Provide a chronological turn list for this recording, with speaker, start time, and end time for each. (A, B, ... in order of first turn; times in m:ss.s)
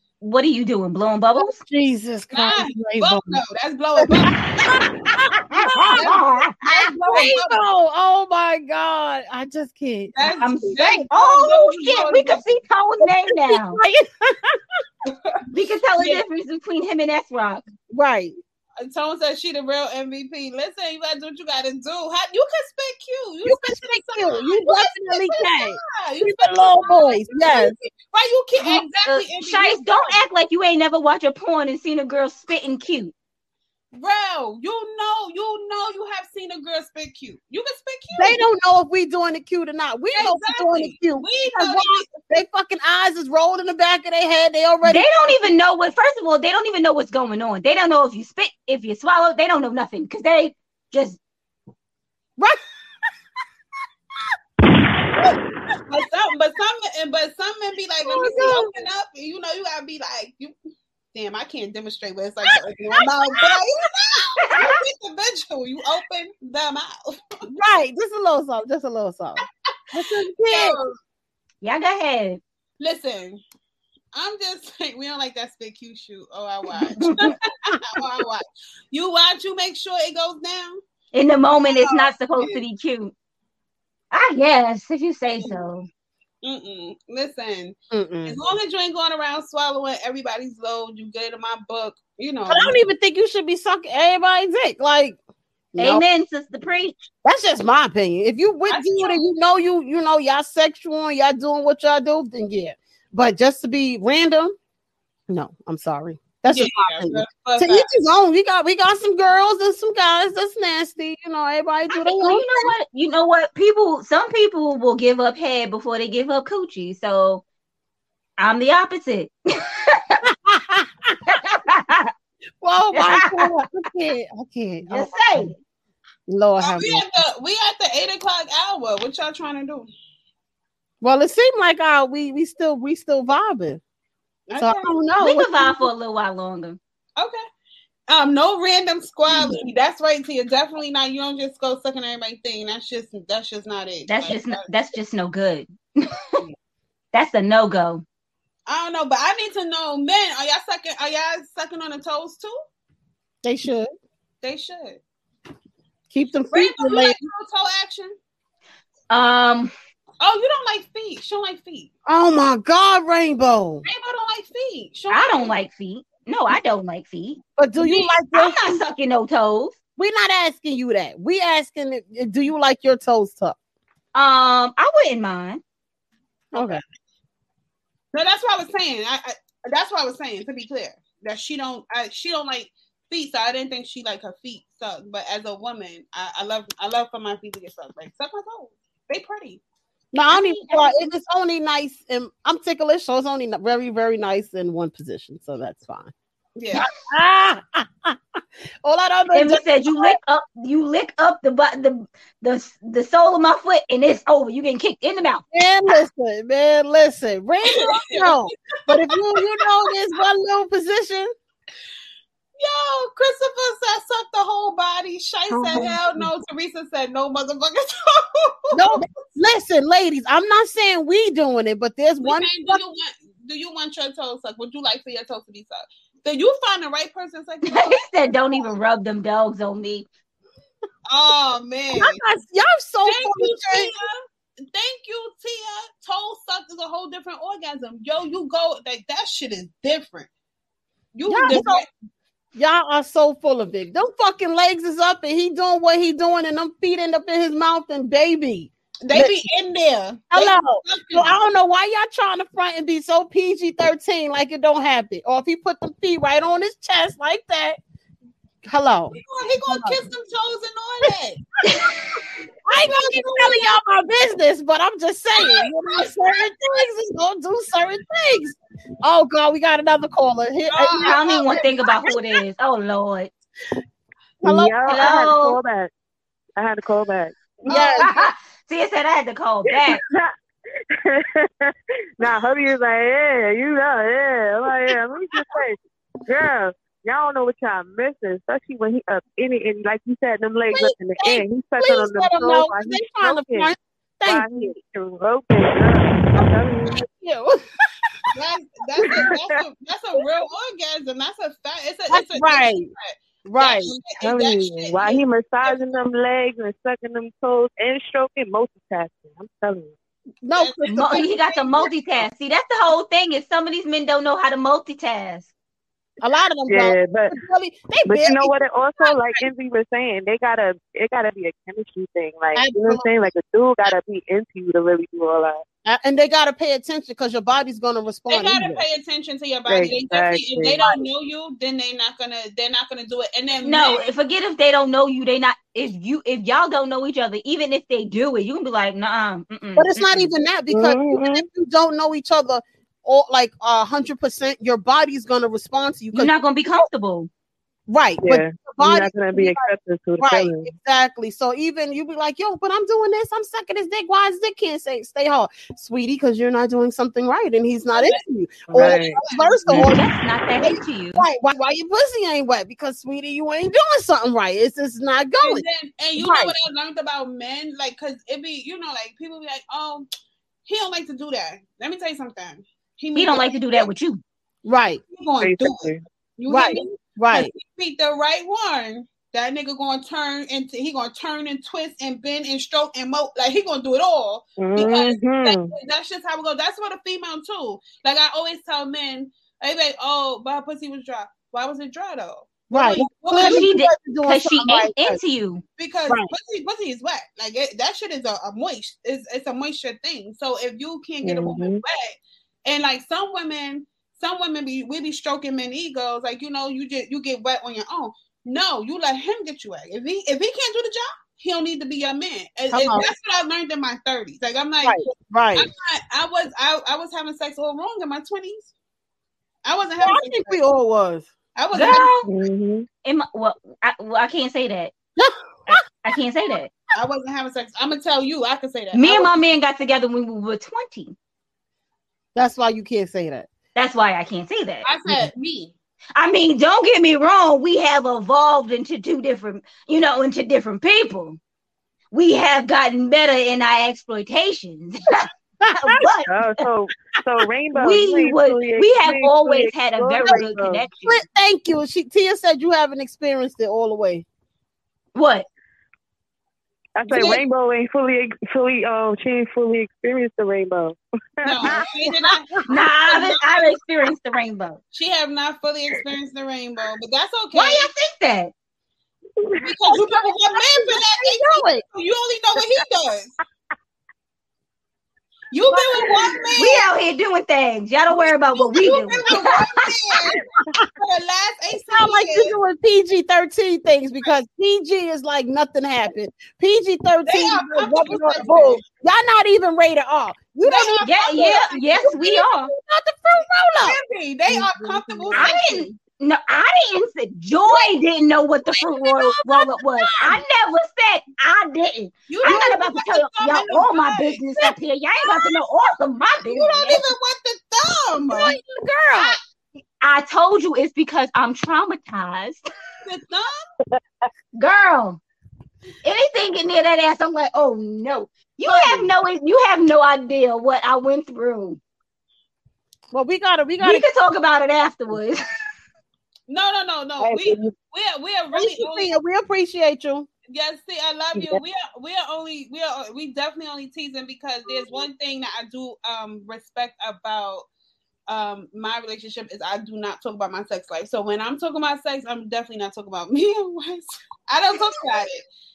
0:00.2-0:01.6 A
0:01.4-0:03.4 B
0:02.3-0:04.6 C
0:04.4-0:06.1 B
0:05.6-0:07.6 C
0:05.8-0:07.3 A
0:06.6-0:10.1 B
0:10.2-0:12.5 C
0:10.4-0:13.8 A
0:13.0-0:14.6 B
0:15.0-0:15.4 C
0:15.5-0:17.6 A
0:17.9-0:18.3 B
0:18.8-0:30.2 C
0:23.4-0:27.7 B
0:28.6-0:33.1 A
0:33.9-0:38.4 C
0:38.2-0:45.1 B
0:40.1-0:42.1 C
0:44.8-0:51.2 A
0:55.9-1:00.5 C
0:58.0-0:58.7 B
1:01.1-1:07.2 C
1:04.5-1:04.8 A
1:07.5-1:10.8 B
1:09.6-1:11.0 C
1:11.6-1:12.4 A
1:12.8-1:13.4 C
1:14.1-1:20.8 C
1:17.0-1:17.3 A
1:21.1-1:23.1 A
1:21.6-1:22.6 C
1:24.1-1:25.9 A
1:26.4-1:32.8 C
1:27.9-1:28.4 B
1:32.5-1:35.2 B
1:35.7-1:36.0 B
1:35.8-1:37.0 A
1:37.2-1:44.5 B
1:38.7-1:39.2 C
1:45.3-1:52.7 B
1:46.5-1:47.9 C
1:51.9-1:57.4 A
1:58.4-2:00.2 A
2:00.3-2:01.4 B
2:01.3-2:02.1 A
2:02.6-2:05.5 B
2:03.0-2:03.5 A
2:04.9-2:05.6 A
2:06.3-2:07.0 B
2:06.6-2:09.9 C
2:11.0-2:13.8 B
2:14.5-2:14.9 C
2:14.6-2:15.9 B
2:15.2-2:16.8 A
2:18.1-2:24.6 C
2:24.1-2:26.4 A
2:27.1-2:28.0 A
2:28.7-2:32.5 C
2:33.4-2:33.9 B
2:34.4-2:35.0 C
2:36.1-2:37.2 B
2:36.5-2:38.1 C
2:39.1-2:39.7 A
2:40.2-2:41.9 C
2:42.1-2:43.8 B
2:43.8-2:45.5 C
2:45.1-2:47.4 A
2:47.6-2:48.6 B
2:48.3-2:49.7 A
2:50.0-2:53.6 B
2:54.1-2:55.6 A
2:56.5-2:56.8 B
2:56.5-2:56.8 C
2:58.1-3:09.6 C
3:10.1-3:16.1 B
3:10.3-3:11.1 A
3:16.6-3:16.8 C
3:16.8-3:18.2 B
3:18.8-3:20.1 B
3:19.3-3:25.4 A
3:25.5-3:31.3 B
3:27.7-3:28.5 C
3:32.6-3:39.0 C
3:35.5-3:36.3 B
3:38.7-3:42.8 B
3:42.2-3:48.0 C
3:47.7-3:50.1 A
3:51.1-3:52.2 C
3:52.0-3:53.9 B
3:53.0-4:00.3 C
4:01.1-4:01.9 C
4:01.3-4:01.8 B
4:02.6-4:09.4 B
4:09.0-4:11.4 C
4:10.3-4:17.8 B
4:18.6-4:19.2 B
4:19.1-4:21.4 C
4:19.7-4:20.0 B
4:22.6-4:31.2 B
4:22.8-4:23.7 C
4:25.4-4:26.4 C
4:30.7-4:32.3 C
4:31.0-4:33.3 A
4:34.4-4:35.4 B
4:34.4-4:35.9 D
4:34.9-4:35.6 A
4:36.6-4:37.4 D
4:37.7-4:38.2 C
4:37.7-4:38.2 B
4:38.0-4:40.0 A
4:39.7-4:40.3 D
4:41.0-4:53.7 D
4:50.7-4:54.7 B
4:54.2-4:57.0 D
4:56.4-4:57.6 B
4:58.3-5:06.0 C
4:59.2-4:59.5 D
5:02.1-5:02.9 B
5:03.4-5:03.9 B
5:04.2-5:09.9 D
5:10.4-5:11.3 B
5:10.6-5:12.2 C
5:10.9-5:15.5 A
5:16.2-5:19.4 B
5:16.7-5:17.4 D
5:18.1-5:25.6 D
5:22.5-5:23.3 B
5:25.8-5:28.8 B
5:28.3-5:34.1 C
5:29.7-5:31.0 D
5:33.6-5:40.3 A
5:39.8-5:46.3 B
5:40.7-5:41.4 D
5:46.1-5:47.3 A
5:47.9-6:00.0 B
5:48.2-5:50.7 D
5:57.9-5:58.2 C
5:58.7-5:59.2 D
5:58.7-5:59.7 C
5:59.7-6:01.2 A
6:00.6-6:05.6 B
6:05.4-6:10.1 C
6:06.2-6:06.5 B
6:10.6-6:13.9 C
6:13.1-6:14.2 A
6:14.6-6:15.0 B
6:15.1-6:33.7 C
6:15.4-6:16.0 D
6:16.5-6:17.5 B
6:24.6-6:25.7 D
6:32.7-6:35.2 B
6:33.4-6:35.6 A
6:35.8-6:58.7 C
6:41.2-6:41.8 D
6:52.7-6:53.1 B
6:54.8-6:55.7 B
6:59.6-7:00.6 C
7:00.0-7:01.3 B
7:01.6-7:02.1 C
7:01.7-7:02.3 A
7:02.2-7:02.8 D
7:03.0-7:04.9 A
7:05.2-7:05.8 B
7:05.7-7:06.7 A
7:06.9-7:09.3 C
7:08.9-7:11.1 A
7:12.4-7:13.5 B
7:13.7-7:14.8 A
7:14.8-7:15.7 C
7:16.2-7:21.4 A
7:22.1-7:26.5 A
7:25.6-7:26.0 B
7:26.3-7:30.9 D
7:27.7-7:31.2 A
7:31.0-7:34.2 B
7:35.1-7:35.5 A
7:37.0-7:41.9 D
7:37.1-7:37.4 C
7:41.4-7:43.6 C
7:41.6-7:42.6 B
7:42.7-7:44.8 A
7:44.9-7:47.9 C
7:47.5-7:48.5 A
7:49.4-7:49.8 D
7:49.6-7:53.3 C
7:49.9-7:51.8 B
7:55.5-7:56.9 C
7:55.7-7:56.5 B
7:56.6-7:59.7 A
7:58.6-8:00.4 C
8:01.0-8:02.5 C
8:01.9-8:15.8 B
8:07.2-8:08.8 C
8:10.6-8:12.2 C
8:11.0-8:12.7 A
8:13.8-8:15.9 C
8:15.3-8:27.0 A
8:18.7-8:20.4 B
8:22.3-8:24.6 C
8:26.5-8:28.6 C
8:28.3-8:29.4 B
8:30.0-8:32.6 A
8:33.0-8:33.6 C
8:34.6-8:35.2 A
8:36.0-8:41.8 A
8:38.6-8:39.0 B
8:43.1-8:44.0 B
8:43.8-8:45.4 A
8:46.5-8:49.1 C
8:47.2-8:47.7 D
8:48.5-8:50.3 B
8:50.5-8:57.7 C
8:51.3-8:51.6 D
8:58.3-9:05.4 C